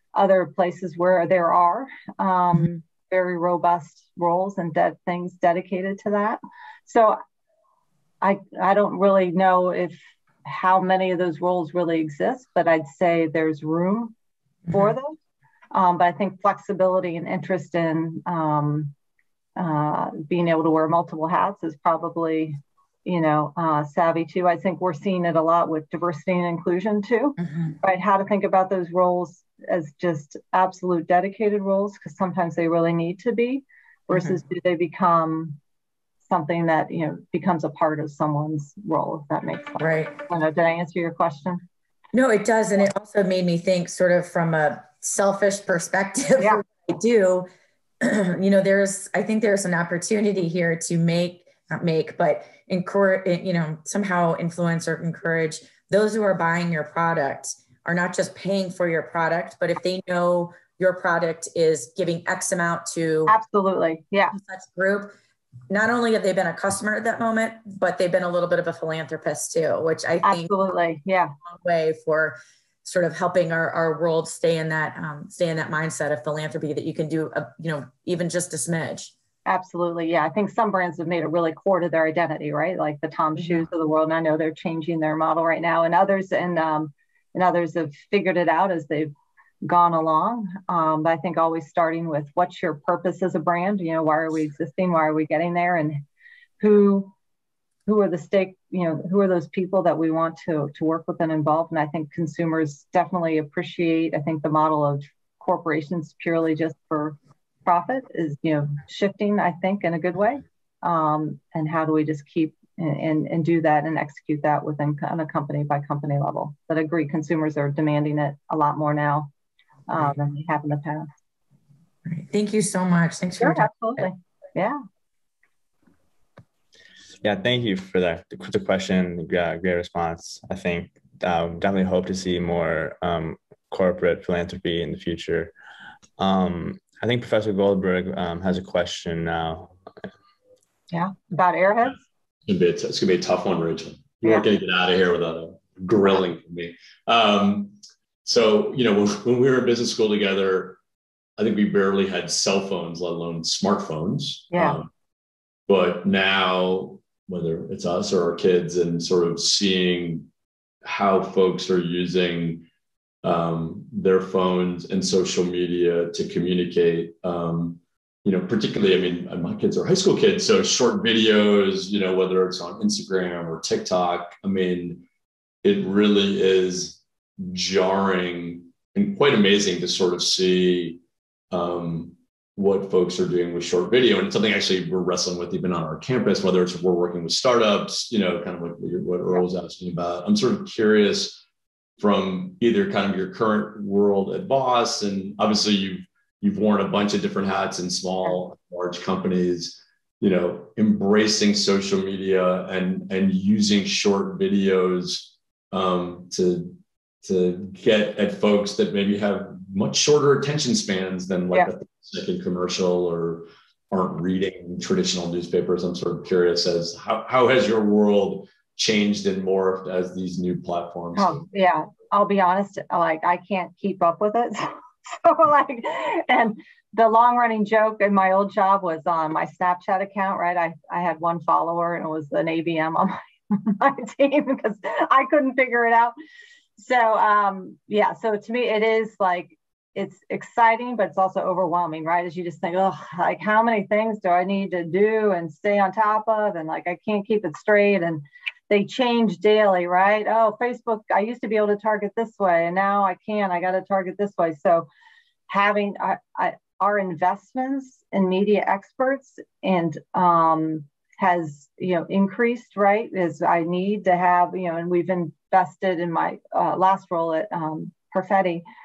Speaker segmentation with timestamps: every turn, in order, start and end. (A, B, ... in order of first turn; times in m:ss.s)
0:00.1-0:07.2 A
0:08.2-0:14.1 A
0:14.7-0:14.9 B
0:14.7-0:15.2 A
0:15.7-0:18.9 A
0:19.6-0:35.6 A
0:27.4-0:27.7 B
0:36.3-0:41.6 A
0:39.8-0:40.1 B
0:42.1-0:47.5 B
0:48.0-1:03.3 B
1:03.3-1:04.4 A
1:04.3-1:05.1 B
1:05.7-1:10.5 B
1:10.2-1:11.3 A
1:11.4-1:19.1 B
1:19.4-1:29.1 A
1:29.6-1:36.0 A
1:36.6-1:37.1 A
1:37.8-1:59.3 A
1:59.9-2:01.1 A
2:02.0-2:04.0 B
2:03.4-2:04.8 A
2:07.2-2:15.5 C
2:16.2-2:19.7 C
2:20.9-2:22.0 A
2:22.4-2:27.7 D
2:28.2-2:30.8 D
2:31.4-2:34.9 D
2:34.5-2:34.8 A
2:35.7-2:40.3 D
2:40.8-2:42.6 D
2:43.2-2:55.0 D
2:55.6-3:01.0 D
3:01.5-3:11.4 D
3:12.0-3:41.4 D
3:41.2-3:56.1 A
3:56.8-4:14.9 A
4:15.5-4:28.6 A